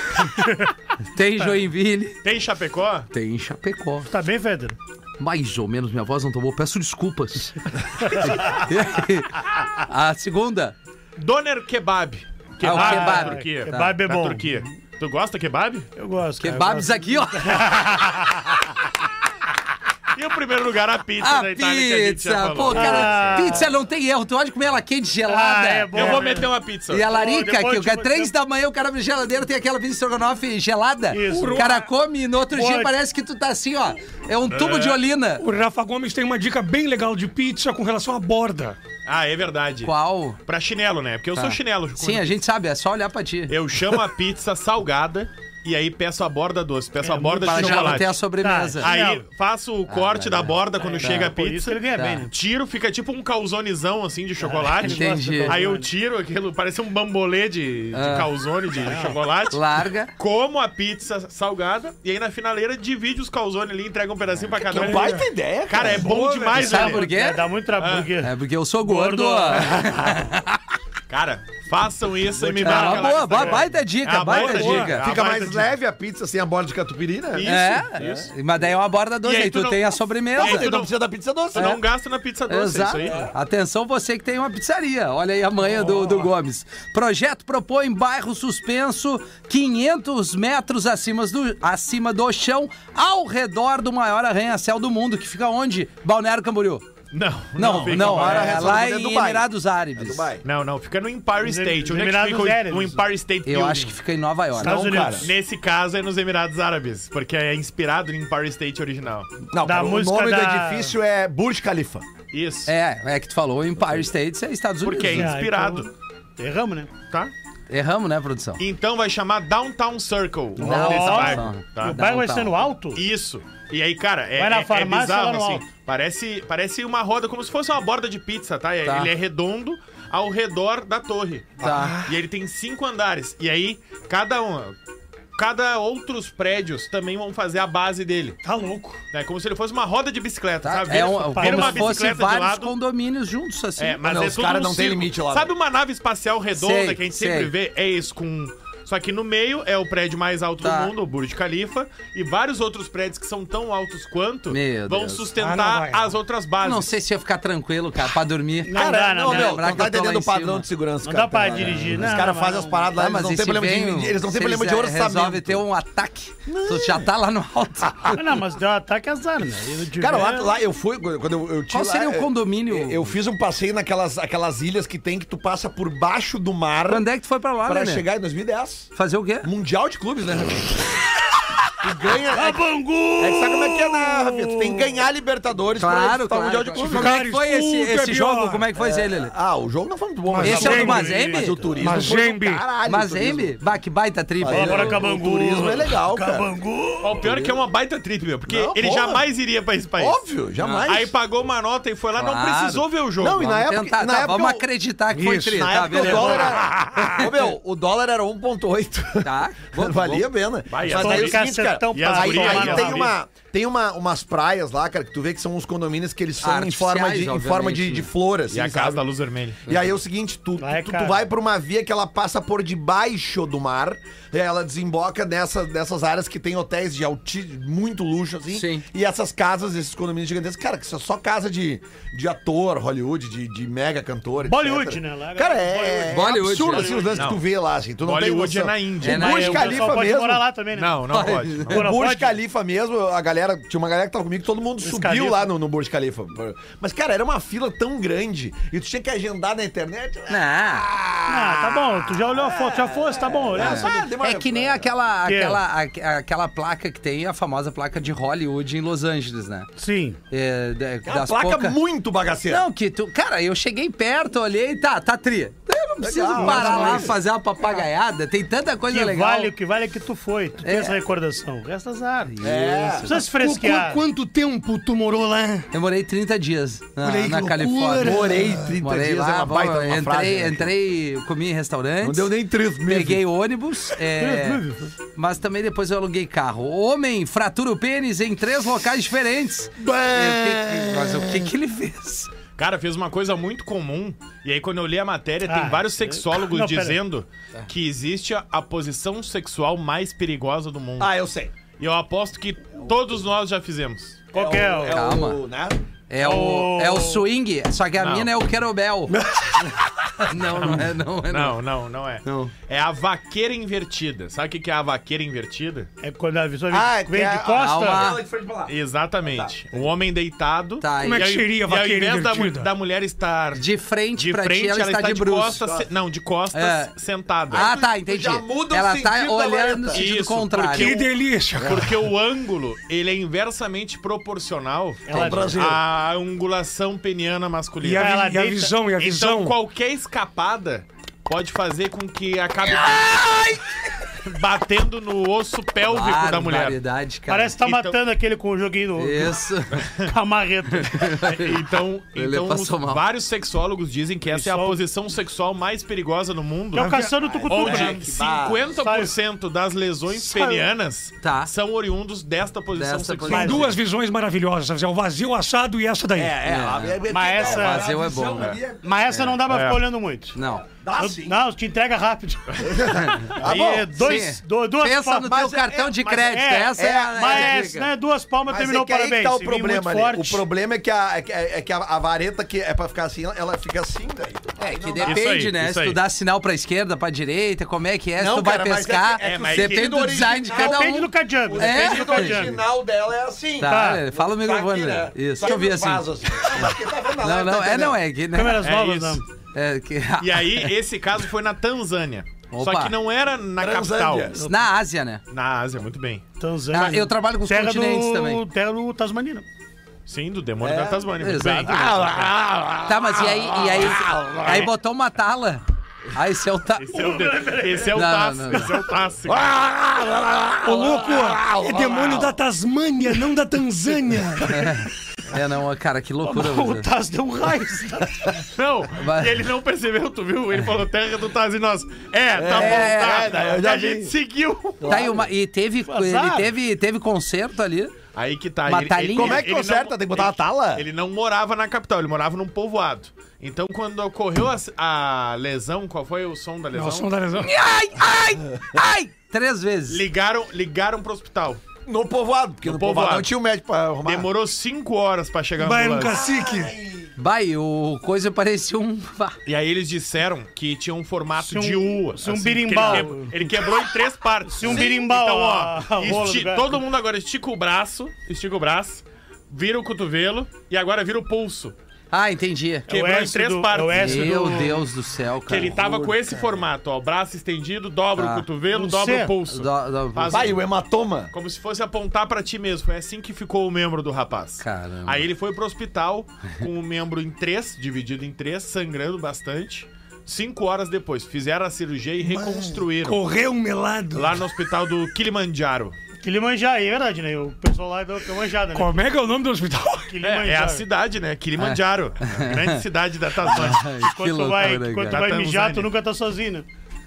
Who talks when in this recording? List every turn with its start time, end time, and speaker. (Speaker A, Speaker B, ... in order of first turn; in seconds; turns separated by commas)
Speaker A: 1.1-2.2, Speaker B: 2.2-3.1, Speaker A: 3.1-4.1, Speaker C: 4.1-4.8, Speaker A: 5.2-10.8, Speaker C: 8.0-8.6, Speaker B: 11.2-15.9, Speaker A: 12.6-14.0, Speaker C: 12.7-14.7, Speaker C: 16.0-18.6, Speaker A: 16.4-17.7, Speaker B: 20.1-23.6, Speaker A: 21.2-26.3, Speaker C: 22.7-23.7, Speaker C: 25.3-26.5, Speaker B: 25.9-27.1, Speaker A: 26.9-35.4, Speaker C: 27.1-28.3, Speaker C: 31.1-31.8, Speaker D: 31.3-31.8, Speaker C: 32.5-32.9, Speaker B: 34.5-35.0, Speaker D: 35.4-38.8, Speaker B: 39.1-39.9, Speaker A: 39.8-40.4, Speaker B: 40.5-42.3, Speaker A: 41.3-43.5, Speaker B: 43.5-48.1, Speaker C: 47.0-49.2, Speaker A: 47.5-49.0, Speaker B: 48.8-59.6, Speaker A: 49.9-51.3, Speaker C: 50.8-52.3, Speaker A: 52.0-52.3, Speaker C: 54.4-55.9, Speaker A: 54.9-55.6, Speaker A: 57.9-58.3, Speaker C: 58.8-59.2, Speaker A: 59.5-60.1, Speaker B: 60.2-67.1, Speaker E: 64.6-66.1, Speaker D: 64.8-65.2, Speaker D: 66.0-66.8, Speaker A: 66.5-67.4, Speaker C: 66.6-70.0, Speaker B: 67.8-68.1, Speaker A: 68.2-70.6, Speaker B: 71.1-75.7, Speaker C: 72.5-73.7, Speaker A: 72.6-75.0, Speaker D: 74.3-75.0, Speaker E: 75.0-78.3, Speaker B: 77.3-78.3, Speaker A: 77.4-80.7, Speaker B: 79.2-80.9, Speaker E: 80.4-81.7, Speaker B: 81.5-83.2, Speaker A: 81.5-81.8, Speaker A: 82.5-96.8, Speaker B: 97.1-98.8, Speaker A: 97.6-100.3, Speaker E: 97.8-100.4, Speaker B: 100.4-104.0, Speaker C: 101.4-103.0, Speaker A: 103.5-105.0, Speaker C: 104.6-105.3, Speaker E: 104.6-105.3, Speaker B: 105.2-109.3, Speaker E: 109.5-112.0, Speaker C: 109.6-110.9, Speaker B: 112.3-112.7, Speaker A: 112.7-115.3, Speaker B: 114.8-115.9, Speaker C: 115.1-116.9, Speaker A: 117.7-118.6, Speaker B: 118.6-122.0, Speaker A: 120.6-122.6, Speaker C: 120.6-123.0, Speaker B: 122.9-134.8, Speaker C: 124.4-125.6, Speaker A: 128.8-129.1, Speaker A: 131.6-132.0, Speaker E: 131.6-131.9, Speaker D: 131.7-132.0, Speaker B: 135.4-138.4, Speaker D: 138.4-139.0, Speaker B: 139.1-142.8, Speaker A: 140.6-144.0, Speaker C: 141.0-142.0, Speaker B: 143.8-156.9, Speaker E: 144.0-145.5, Speaker A: 146.6-147.5, Speaker A: 150.6-150.9, Speaker A: 154.5-155.3, Speaker D: 155.4-156.1, Speaker A: 156.6-160.7, Speaker C: 158.7-159.8, Speaker E: 158.7-165.6, Speaker C: 161.0-162.9, Speaker A: 161.4-162.2, Speaker A: 163.0-168.2, Speaker E: 166.5-167.1, Speaker C: 168.1-170.5, Speaker E: 170.0-177.1, Speaker A: 171.7-173.1, Speaker A: 176.9-178.1, Speaker E: 177.7-181.0, Speaker A: 178.9-179.5, Speaker E: 181.8-182.6, Speaker C: 182.3-184.9, Speaker E: 183.2-187.2, Speaker A: 185.8-189.3, Speaker D: 186.9-188.7, Speaker E: 188.8-193.5, Speaker D: 190.3-191.2, Speaker C: 190.4-191.7, Speaker A: 190.4-191.6, Speaker D: 191.8-192.7, Speaker A: 192.9-195.1, Speaker E: 194.4-196.5, Speaker C: 194.5-197.2, Speaker B: 197.0-200.2, Speaker E: 197.2-197.6, Speaker E: 198.5-199.3, Speaker E: 200.0-201.1, Speaker A: 200.6-200.9, Speaker B: 200.9-203.4, Speaker A: 202.2-206.5, Speaker E: 203.2-204.7, Speaker D: 205.1-207.2, Speaker E: 205.5-219.1, Speaker A: 209.2-210.3, Speaker B: 210.7-213.2, Speaker C: 210.9-213.1, Speaker A: 216.4-218.1, Speaker B: 218.5-219.6, Speaker E: 219.7-240.4, Speaker C: 220.6-221.2, Speaker A: 228.5-228.8, Speaker C: 234.4-237.3, Speaker A: 236.1-237.0, Speaker B: 237.1-237.4, Speaker B: 238.0-239.9, Speaker A: 239.0-239.6, Speaker C: 239.1-241.0, Speaker B: 240.7-241.9, Speaker A: 241.1-241.8, Speaker E: 241.7-254.9, Speaker C: 241.7-242.3, Speaker C: 244.8-245.5, Speaker A: 250.3-250.9, Speaker C: 251.3-254.0, Speaker A: 253.6-259.7, Speaker C: 255.3-255.6, Speaker C: 259.8-260.2, Speaker A: 260.3-261.8, Speaker E: 261.1-262.6, Speaker A: 262.5-269.5, Speaker E: 266.0-267.1, Speaker D: 266.4-267.1, Speaker C: 268.9-272.4, Speaker A: 270.6-271.0, Speaker A: 272.3-273.2, Speaker E: 272.4-273.1, Speaker C: 273.1-274.0, Speaker D: 273.1-275.7, Speaker A: 275.7-282.3, Speaker D: 277.0-278.7, Speaker E: 278.0-280.7, Speaker E: 282.0-283.2, Speaker A: 282.8-284.6, Speaker C: 284.2-284.9, Speaker A: 285.1-292.3, Speaker E: 289.8-291.4, Speaker B: 292.6-301.1, Speaker C: 295.5-297.0, Speaker E: 301.0-301.5, Speaker B: 301.8-304.2, Speaker C: 304.3-305.1, Speaker E: 304.3-305.8, Speaker A: 304.9-305.4, Speaker A: 306.1-309.2, Speaker C: 306.2-307.2, Speaker B: 308.0-308.3, Speaker D: 309.1-309.7, Speaker A: 310.2-311.6, Speaker B: 310.4-315.9, Speaker C: 316.0-318.1, Speaker E: 316.7-319.5, Speaker A: 317.5-318.2, Speaker B: 318.7-323.6, Speaker A: 320.8-321.3, Speaker D: 321.0-322.7, Speaker A: 323.6-325.6, Speaker B: 324.2-327.7, Speaker E: 325.6-325.9, Speaker A: 326.5-326.9, Speaker A: 327.5-331.0, Speaker E: 327.5-330.1, Speaker B: 329.9-331.1, Speaker D: 330.7-332.0, Speaker E: 331.6-331.9, Speaker B: 331.6-338.2, Speaker C: 335.1-335.6, Speaker E: 335.1-335.8, Speaker D: 337.8-339.6, Speaker C: 338.0-338.8, Speaker B: 339.0-343.2, Speaker B: 344.2-346.8, Speaker A: 345.8-347.6, Speaker C: 347.3-349.4, Speaker B: 347.6-347.9, Speaker A: 349.0-349.8, Speaker B: 349.7-350.1, Speaker C: 350.1-351.2, Speaker A: 350.7-351.6, Speaker B: 351.2-363.7, Speaker A: 352.2-353.0, Speaker C: 354.3-354.8, Speaker C: 356.7-358.1, Speaker D: 356.8-357.1, Speaker E: 357.2-358.7, Speaker C: 358.8-359.1, Speaker C: 360.1-360.7, Speaker A: 361.2-361.5, Speaker A: 362.8-363.7, Speaker D: 363.3-366.4, Speaker C: 363.3-363.6, Speaker E: 366.2-368.9, Speaker A: 366.5-369.4, Speaker C: 367.1-367.9, Speaker C: 368.8-370.4, Speaker B: 369.5-369.8, Speaker A: 370.3-370.6, Speaker E: 370.7-371.4, Speaker C: 371.0-372.7, Speaker E: 372.6-374.1, Speaker B: 373.4-374.0, Speaker C: 373.4-375.5, Speaker A: 374.0-377.9, Speaker E: 375.3-376.2, Speaker C: 376.1-380.4, Speaker E: 376.8-377.7, Speaker E: 378.5-385.2, Speaker A: 384.6-392.4, Speaker B: 385.0-386.0, Speaker E: 388.2-398.0, Speaker B: 389.2-389.9, Speaker C: 390.5-392.6, Speaker A: 393.6-398.7, Speaker C: 393.6-394.0, Speaker C: 398.3-399.2, Speaker B: 398.6-399.2, Speaker A: 399.5-400.7, Speaker B: 400.2-404.3, Speaker A: 402.5-402.9, Speaker E: 403.6-404.4, Speaker A: 404.4-405.2, Speaker B: 405.3-406.2, Speaker C: 406.4-409.5, Speaker A: 406.7-408.4, Speaker B: 410.1-411.9, Speaker E: 410.6-414.7, Speaker A: 411.2-412.2, Speaker A: 412.9-415.6, Speaker A: 416.1-416.9, Speaker B: 416.8-419.5, Speaker C: 416.9-418.8, Speaker A: 417.9-418.7, Speaker E: 419.2-422.3, Speaker D: 420.6-424.8, Speaker A: 424.5-426.9, Speaker C: 426.2-428.4, Speaker B: 428.5-434.9, Speaker A: 429.0-429.3, Speaker E: 432.3-434.1, Speaker A: 432.5-433.3, Speaker E: 434.8-435.3, Speaker A: 434.9-437.9, Speaker C: 435.9-436.5, Speaker B: 438.1-447.1, Speaker A: 438.7-439.4, Speaker E: 439.1-440.9, Speaker D: 446.7-447.6, Speaker A: 447.4-450.0, Speaker B: 449.9-451.6, Speaker E: 451.9-454.3, Speaker B: 452.6-453.3, Speaker B: 454.0-456.2, Speaker D: 455.6-456.7, Speaker E: 456.1-457.1, Speaker A: 457.2-459.4, Speaker B: 459.4-471.8, Speaker C: 461.4-463.3, Speaker C: 464.5-466.8, Speaker A: 472.1-472.9, Speaker B: 472.9-474.7, Speaker C: 472.9-474.8, Speaker A: 473.9-476.0, Speaker B: 475.5-480.6, Speaker E: 475.8-476.4, Speaker A: 478.2-478.5, Speaker C: 478.7-479.3, Speaker A: 479.5-480.6, Speaker E: 480.3-481.3, Speaker B: 481.3-493.2, Speaker A: 484.6-485.3, Speaker D: 492.3-494.4, Speaker B: 494.1-496.0, Speaker C: 496.2-499.0, Speaker D: 498.7-500.1, Speaker C: 500.1-500.8, Speaker B: 500.2-503.9, Speaker A: 501.6-502.8, Speaker A: 503.4-505.3, Speaker C: 503.7-506.7, Speaker B: 505.1-505.9